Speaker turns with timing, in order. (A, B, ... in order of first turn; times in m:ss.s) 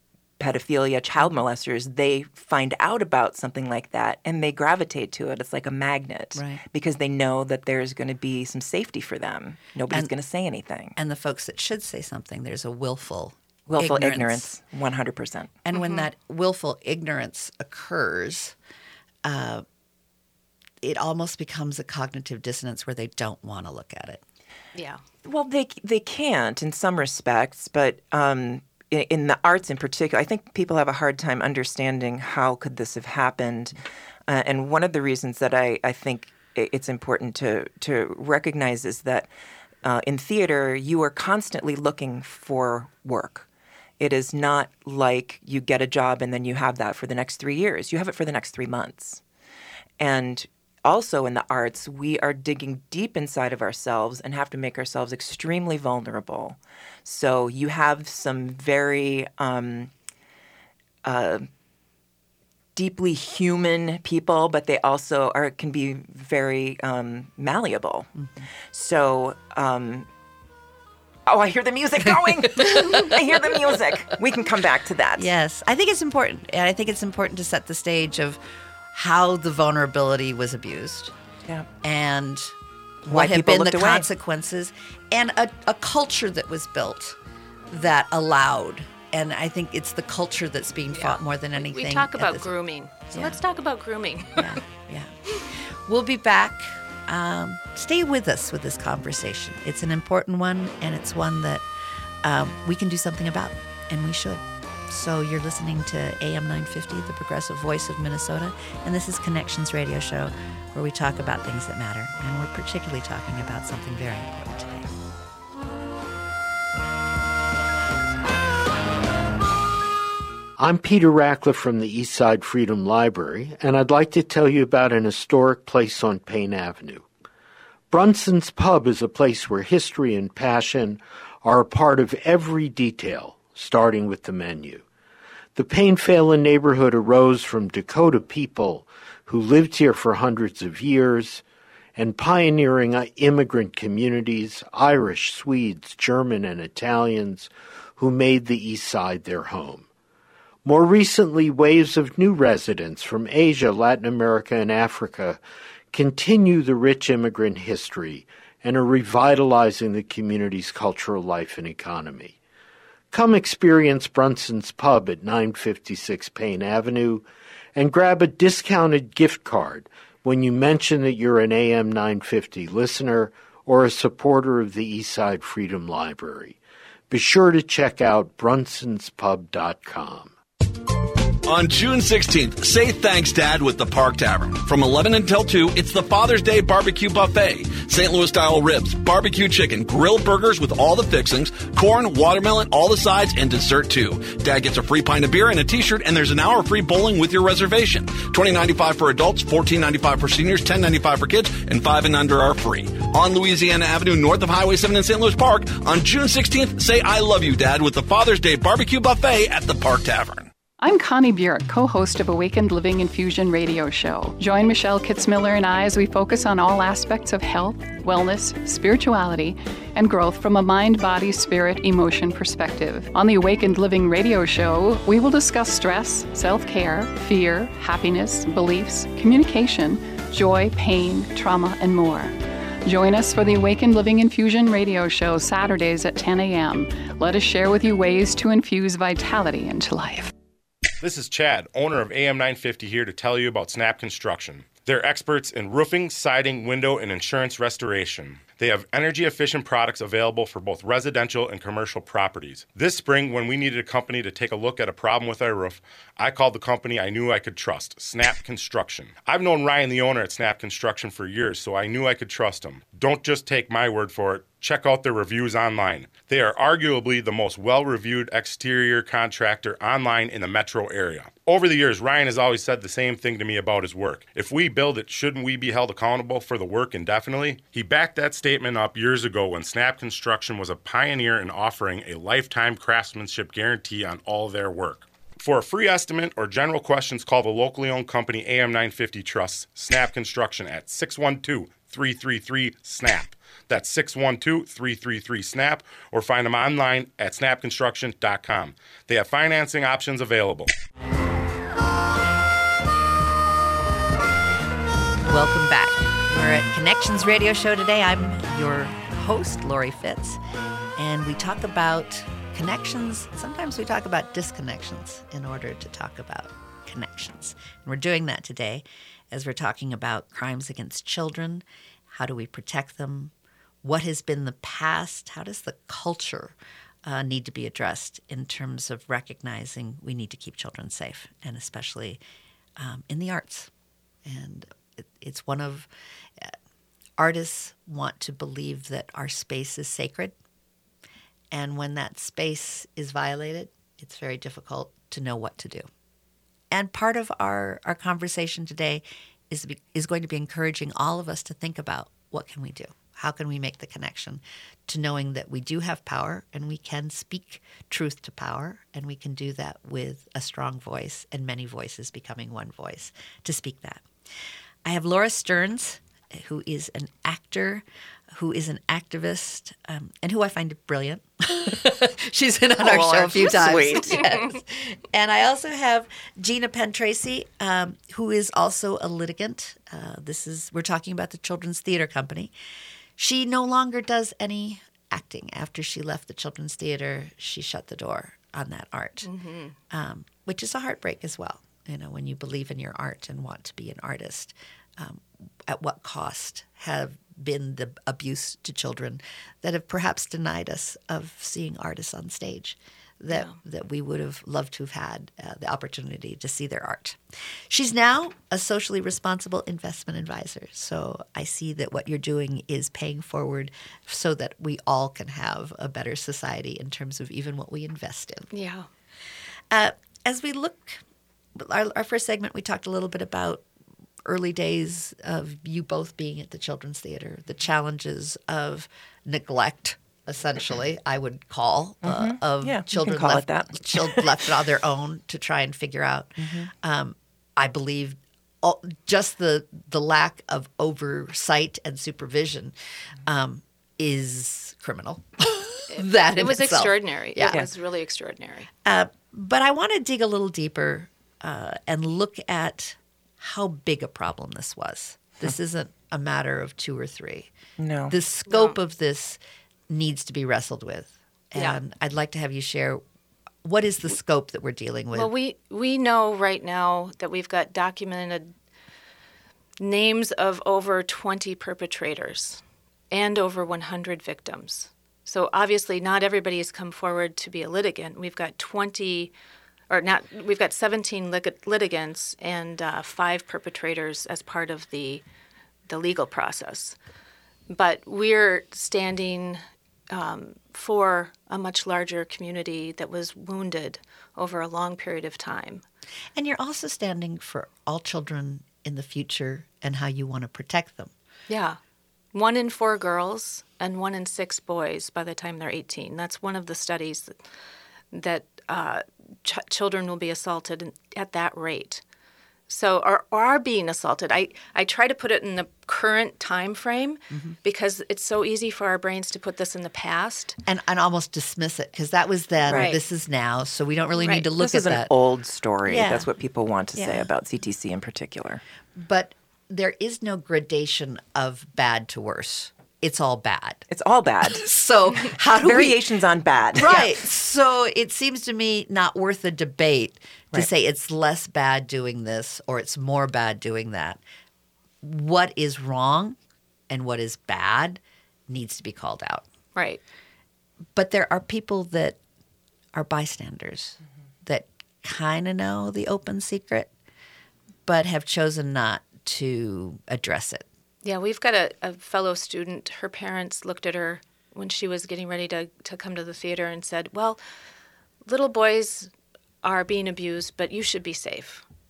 0:00.4-0:11.0 A
0:06.3-0:06.6 B
0:11.0-0:14.5 B
0:13.7-0:15.5 A
0:15.6-0:18.6 B
0:15.7-0:16.0 C
0:19.2-0:19.6 B
0:20.8-0:24.2 B
0:24.7-0:25.0 C
0:25.2-0:39.3 A
0:39.8-0:43.5 A
0:44.0-0:49.2 A
0:50.0-0:59.9 A
1:01.0-1:01.5 A
1:02.8-1:08.1 A
1:08.7-1:10.1 A
1:11.3-1:15.3 A
1:12.4-1:13.8 B
1:15.2-1:18.4 B
1:18.9-1:21.1 B
1:21.8-1:22.5 B
1:23.0-1:27.2 B
1:23.1-1:24.1 A
1:27.7-1:32.5 B
1:30.9-1:34.5 C
1:34.4-1:35.1 B
1:35.6-1:41.6 B
1:42.2-1:54.9 B
2:00.6-2:07.1 D
2:07.9-2:14.8 D
2:15.5-2:21.4 D
2:21.9-2:29.9 D
2:30.6-2:35.4 D
2:35.9-2:42.4 D
2:43.1-2:56.6 D
2:57.1-3:00.3 D
3:01.4-3:30.5 E
3:30.8-4:00.3 F
4:01.0-5:00.7 G
5:05.2-5:10.4 B
5:11.0-5:32.2 B
5:32.8-5:33.7 B
5:34.2-5:36.6 B
5:37.2-5:40.3 B
5:41.5-5:45.9 B
5:46.7-6:04.0 B
6:04.8-6:22.5 B
6:12.8-6:14.3 A
6:23.2-6:29.3 B
6:29.2-6:29.8 C
6:29.9-6:58.5 B
6:43.3-6:43.6 C
6:58.5-6:58.9 C
6:59.7-7:01.0 B
7:01.5-7:03.6 B
7:04.2-7:27.6 B
7:12.0-7:14.3 A
7:16.4-7:16.7 A
7:25.9-7:28.7 C
7:28.8-7:37.5 B
7:37.8-7:38.1 A
7:38.1-7:43.0 B
7:38.5-7:38.8 C
7:41.5-7:41.8 C
7:43.6-7:45.3 B
7:45.1-7:48.5 C
7:49.8-7:59.3 C
7:59.9-8:05.2 C
8:05.9-8:07.0 C
8:07.7-8:15.8 C
8:16.3-8:21.1 B
8:21.5-8:21.8 C
8:22.3-8:27.3 C
8:28.1-8:32.0 C
8:32.7-8:40.6 C
8:37.3-8:37.6 B
8:40.6-8:45.1 B
8:42.7-8:43.0 C
8:44.5-8:48.6 A
8:45.8-8:46.3 B
8:47.0-8:47.3 B
8:48.9-8:53.8 B
8:53.9-8:54.7 A
8:54.5-8:56.0 B
8:55.5-8:57.1 A
8:56.8-9:04.2 B
9:05.0-9:06.4 B
9:06.9-9:09.4 B
9:09.7-9:10.0 C
9:10.9-9:12.2 B
9:12.9-9:16.9 B
9:17.8-9:20.6 B
9:21.0-9:27.4 C
9:28.2-9:29.1 C
9:29.6-9:31.6 C